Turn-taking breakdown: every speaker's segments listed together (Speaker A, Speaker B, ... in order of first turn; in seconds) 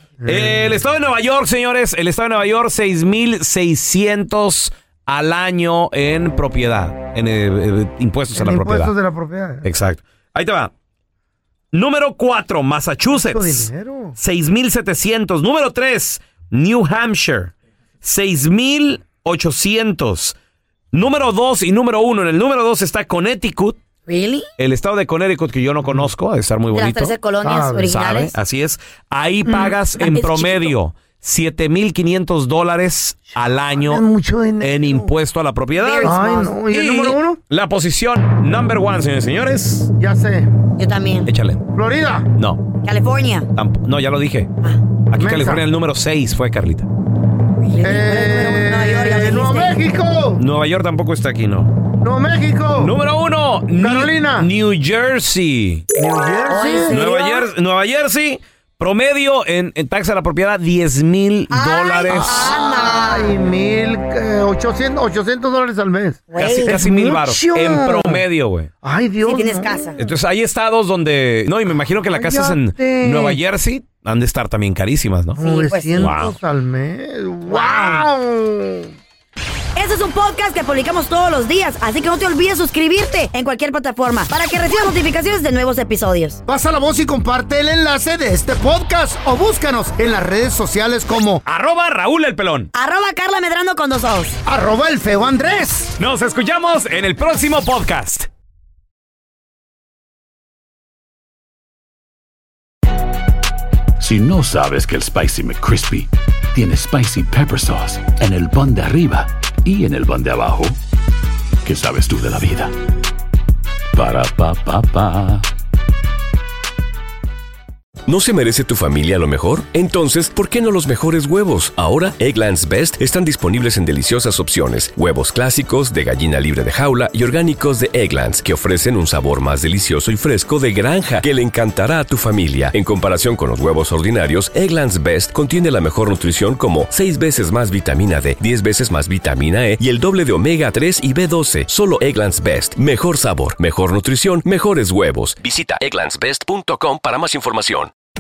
Speaker A: 0.2-0.7, 8.3-9.7, 13.1-14.2, 25.8-26.1, 27.4-27.9, 33.7-35.1, 36.0-37.4, 40.0-40.5, 41.7-42.3, 45.2-45.6, 47.8-50.4, 52.0-53.0, 53.8-54.5, 55.9-57.0, 62.1-68.2, 68.8-70.1, 71.8-73.4, 75.4-78.9, 86.5-91.4, 94.5-96.0
Speaker B: 0.3-8.9, 9.6-10.7, 11.7-20.4, 20.9-23.8, 24.6-27.1, 27.9-34.1, 34.6-39.9, 41.3-41.6, 42.4-42.6, 43.5-44.5, 45.1-46.9, 50.4-51.7, 52.8-55.9, 56.9-62.6, 66.4-68.7, 70.0-75.4, 76.0-76.4, 91.5-92.7, 96.0-98.3
Speaker C: 24.1-24.5, 26.7-28.3, 30.0-30.7, 35.8-36.5, 40.8-41.3, 42.8-43.5, 47.6-49.8, 56.5-57.5, 61.5-63.3, 66.3-66.8, 69.2-70.0, 75.4-76.1, 77.5-78.0, 79.8-86.4, 92.7-94.4
Speaker D: 104.0-110.8, 111.6-112.7, 113.9-115.5
Speaker E: 118.1-147.9